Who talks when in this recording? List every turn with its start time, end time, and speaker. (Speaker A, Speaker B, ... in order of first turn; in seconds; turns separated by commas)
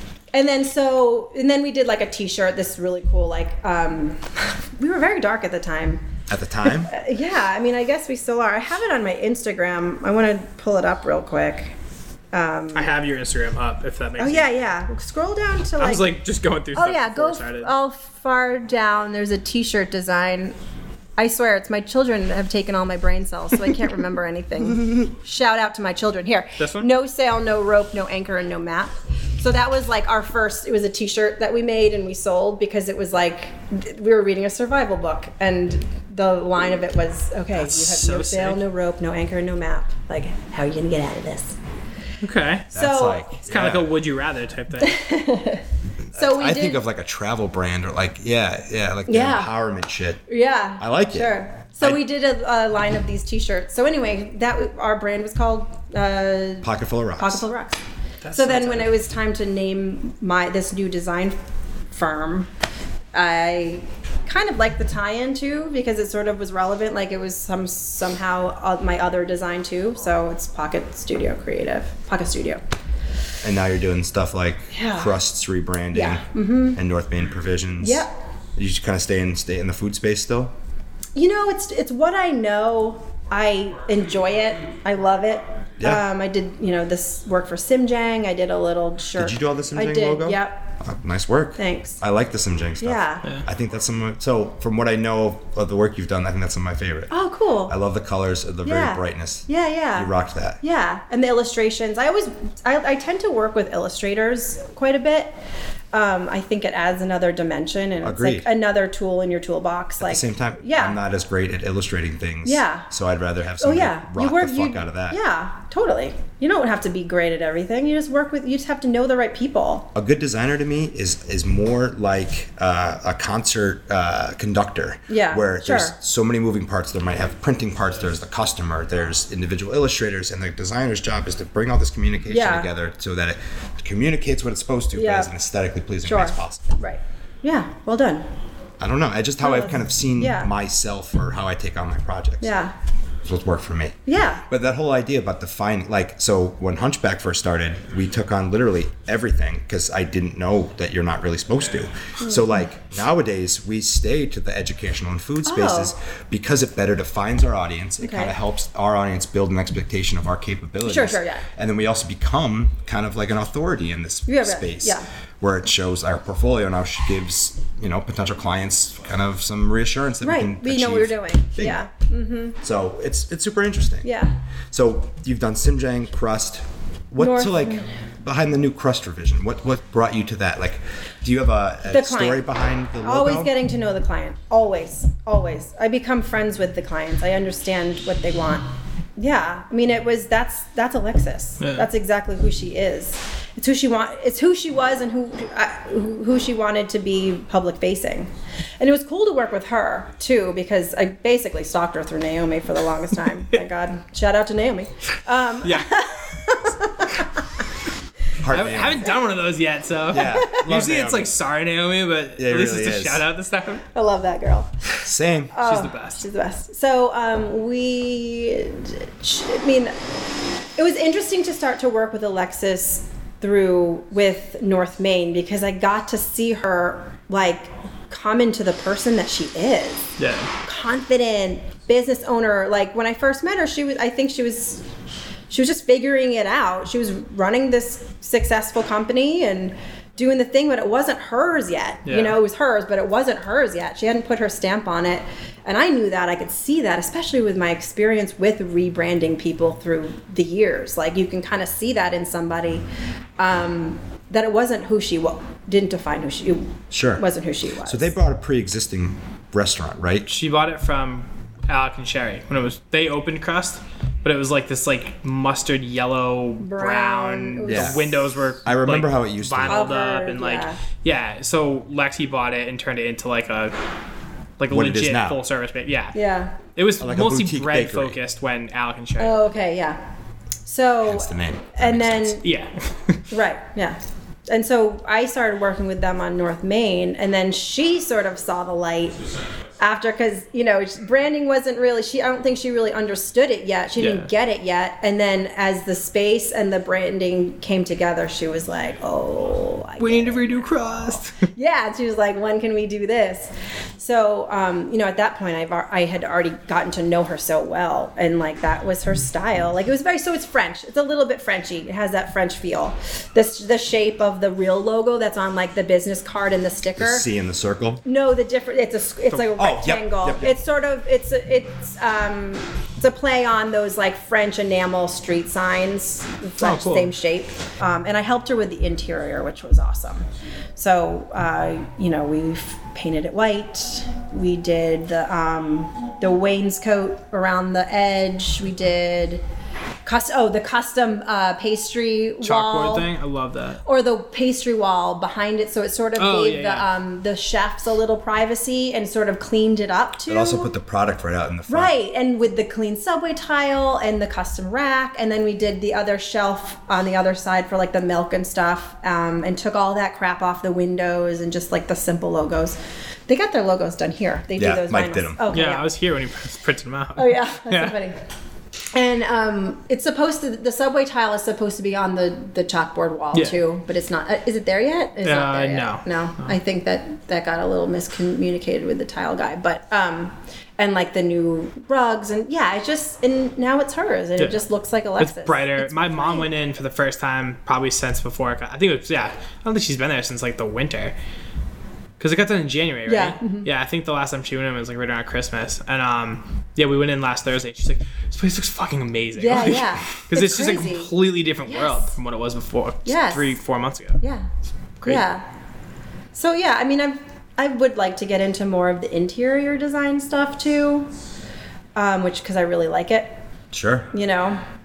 Speaker A: 0.3-6.0, Speaker B: 6.3-6.9, Speaker A: 6.6-11.8, Speaker A: 12.3-12.9, Speaker C: 12.7-14.5, Speaker A: 14.2-16.1, Speaker C: 15.8-17.7, Speaker A: 16.7-20.6, Speaker A: 21.2-41.6, Speaker C: 26.6-26.9, Speaker C: 37.5-38.6, Speaker C: 42.2-42.7, Speaker A: 42.7-43.3, Speaker B: 42.7-43.9, Speaker C: 43.4-45.0, Speaker A: 44.8-46.8, Speaker B: 46.1-50.2, Speaker A: 49.1-49.5, Speaker A: 50.3-57.8, Speaker B: 50.8-52.0, Speaker B: 56.6-57.5, Speaker C: 58.2-58.9, Speaker A: 58.3-61.4, Speaker A: 61.9-62.5, Speaker A: 63.1-72.6, Speaker B: 73.4-80.5, Speaker A: 74.7-75.2, Speaker A: 75.9-76.8, Speaker A: 77.8-78.1, Speaker A: 81.1-90.7, Speaker B: 85.8-86.0, Speaker B: 89.1-97.1, Speaker A: 91.6-92.0, Speaker A: 92.8-93.3, Speaker A: 97.1-97.7, Speaker B: 97.7-100.6, Speaker A: 98.6-105.3, Speaker A: 105.9-111.0, Speaker B: 108.0-108.5, Speaker B: 110.0-115.2, Speaker A: 112.4-112.9, Speaker A: 113.6-119.9, Speaker B: 119.9-136.7, Speaker A: 125.1-126.0, Speaker A: 132.3-132.7, Speaker A: 134.9-135.3, Speaker A: 136.0-138.3, Speaker B: 138.8-142.5, Speaker A: 139.4-140.5, Speaker A: 142.4-142.7, Speaker B: 143.2-171.8, Speaker A: 144.1-144.4, Speaker A: 152.2-152.6, Speaker A: 155.4-155.9, Speaker A: 158.0-158.3, Speaker A: 160.8-161.4, Speaker A: 164.3-165.1, Speaker A: 170.2-172.6, Speaker B: 172.6-174.1, Speaker A: 174.0-174.3, Speaker B: 174.7-183.5, Speaker A: 177.2-177.9, Speaker A: 181.9-182.5, Speaker A: 183.0-207.4, Speaker C: 191.6-191.8, Speaker C: 205.6-206.1, Speaker B: 208.4-209.1, Speaker C: 208.5-213.8, Speaker B: 210.1-211.3, Speaker B: 212.4-213.2, Speaker A: 213.9-214.8, Speaker B: 215.0-215.5, Speaker A: 215.5-219.9, Speaker C: 215.6-216.2, Speaker A: 220.8-234.9, Speaker C: 230.2-230.5, Speaker A: 235.5-252.8, Speaker C: 242.1-242.4, Speaker A: 253.4-258.1, Speaker B: 256.9-257.2, Speaker B: 257.8-260.3, Speaker C: 260.3-273.7, Speaker A: 266.6-268.1, Speaker B: 267.7-268.1, Speaker B: 268.6-269.9, Speaker A: 269.7-270.8, Speaker C: 274.6-276.1, Speaker B: 274.7-275.4, Speaker A: 276.1-276.6, Speaker C: 276.8-279.4, Speaker B: 277.0-278.2, Speaker A: 279.2-280.0, Speaker A: 280.6-282.4, Speaker B: 281.0-282.4, Speaker C: 282.4-283.2, Speaker A: 283.3-289.2, Speaker A: 289.8-317.3, Speaker C: 294.0-294.3, Speaker C: 300.0-301.4, Speaker B: 317.0-318.0, Speaker A: 318.0-339.4, Speaker B: 319.3-320.5, Speaker C: 326.6-327.1, Speaker A: 340.0-343.1, Speaker C: 342.4-343.8, Speaker A: 343.8-350.7, Speaker C: 346.2-346.9, Speaker B: 350.3-351.9, Speaker A: 351.7-365.9, Speaker B: 364.6-365.4, Speaker C: 365.5-367.9, Speaker A: 367.1-368.2, Speaker A: 368.9-386.5, Speaker C: 375.2-376.5, Speaker C: 385.2-391.1, Speaker C: 392.2-404.2, Speaker A: 393.1-393.7, Speaker A: 399.4-401.1, Speaker A: 401.6-402.1, Speaker A: 403.0-403.6, Speaker A: 404.2-404.5, Speaker A: 405.0-405.4, Speaker A: 406.3-411.1, Speaker A: 411.9-413.4, Speaker B: 413.7-414.1, Speaker A: 414.1-414.6